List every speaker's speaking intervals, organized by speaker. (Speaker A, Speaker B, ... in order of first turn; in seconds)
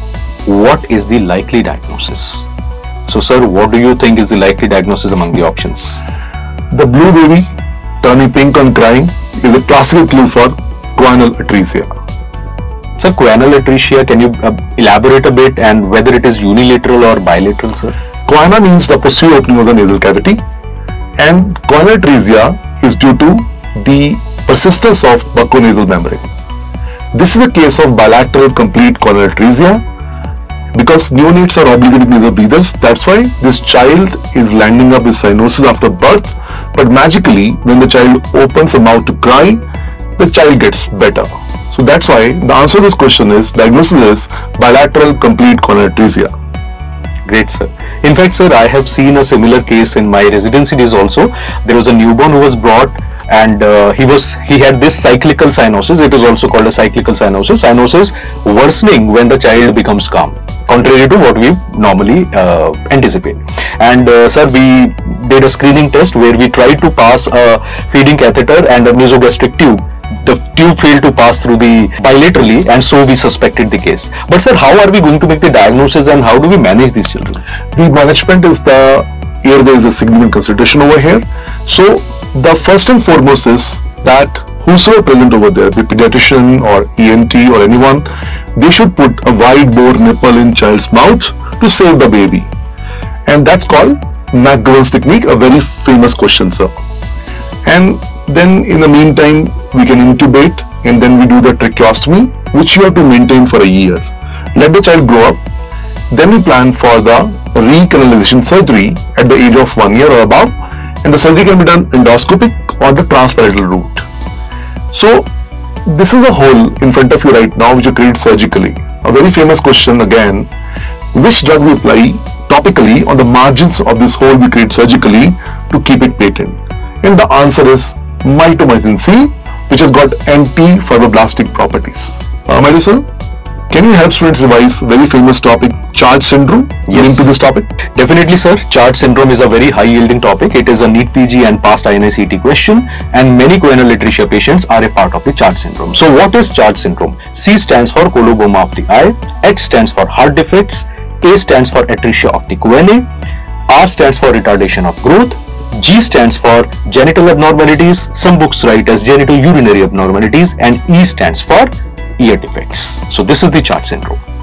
Speaker A: 0.5-2.5, 3.1-6.0, 13.0-17.9, 47.3-77.4, 136.9-137.2, 137.9-153.1, 153.7-164.2
Speaker B: 6.7-7.5, 8.0-11.9, 18.2-20.4, 21.2-26.3, 27.1-29.8, 30.7-39.6, 40.2-46.3, 77.7-92.5, 93.2-96.7, 97.6-104.0, 104.5-105.4, 106.1-114.0, 114.9-115.3, 115.9-120.5, 121.1-133.0, 133.7-137.7